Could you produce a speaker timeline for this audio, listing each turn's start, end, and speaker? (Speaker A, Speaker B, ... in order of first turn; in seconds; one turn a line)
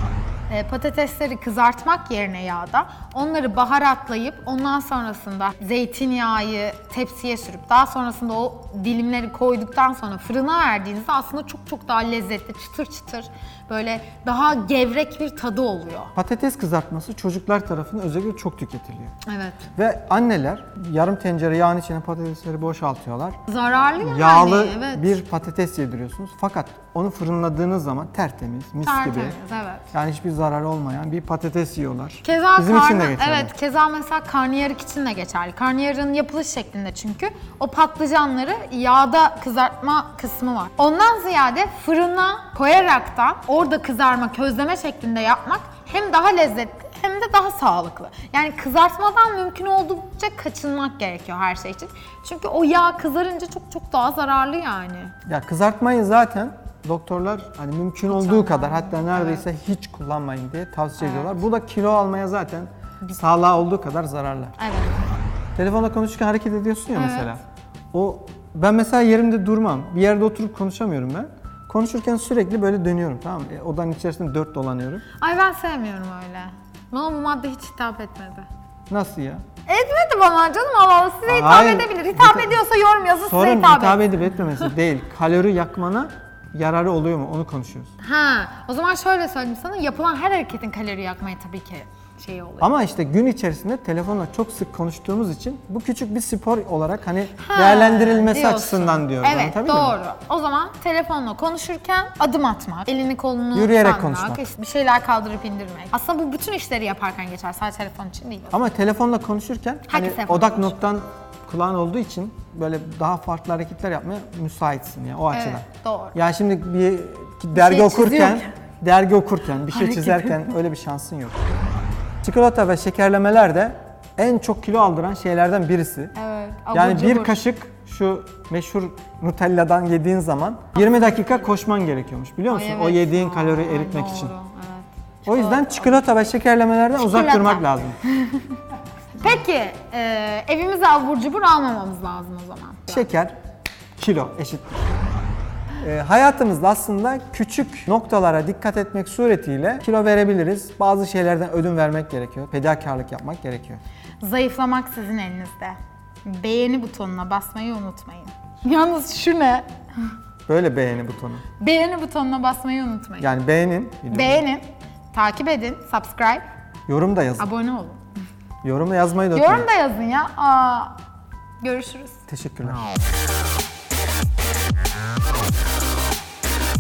Speaker A: 0.5-16.1
Speaker B: 16.1-19.1
Speaker A: 19.2-19.7
Speaker B: 19.8-23.4
Speaker A: 23.5-25.1
Speaker B: 24.0-29.4
Speaker A: 28.8-29.9
Speaker B: 29.9-33.5
Speaker A: 32.2-55.1
Speaker B: 55.3-64.6
Speaker A: 58.1-59.5
Speaker A: 61.0-61.4
Speaker A: 64.6-65.0
Speaker B: 65.6-67.4
Speaker A: 66.9-67.3
Speaker B: 67.9-75.0
Speaker A: 75.2-78.5
Speaker B: 78.9-79.4
Speaker A: 79.7-84.6
Speaker B: 81.3-82.6
Speaker B: 83.2-87.9
Speaker A: 88.0-92.7
Speaker B: 92.6-100.0
Speaker A: 97.4-108.5
Speaker B: 103.5-104.4
Speaker B: 108.5-121.4
Speaker A: 109.9-110.8
Speaker A: 115.3-116.2
Speaker A: 117.5-118.5
Speaker A: 119.7-120.5
Speaker B: 122.2-126.1
Speaker A: 126.2-127.4
Speaker B: 126.7-134.3
Speaker A: 130.8-131.4
Speaker A: 132.5-136.1
Speaker B: 135.3-138.0
Speaker A: 136.9-138.6
Speaker A: 139.2-143.1
Speaker B: 142.9-143.3
Speaker B: 144.0-144.9
Speaker B: 145.8-153.8
Speaker A: 154.2-159.7
Speaker B: 160.5-161.4
Speaker A: 161.6-163.3
Speaker B: 163.2-164.4
Speaker A: 164.1-166.4
Speaker B: 166.9-167.5
Speaker A: 167.4-168.1
Speaker B: 168.6-169.7
Speaker A: 169.3-170.9
Speaker A: 171.6-172.2
Speaker B: 172.3-172.9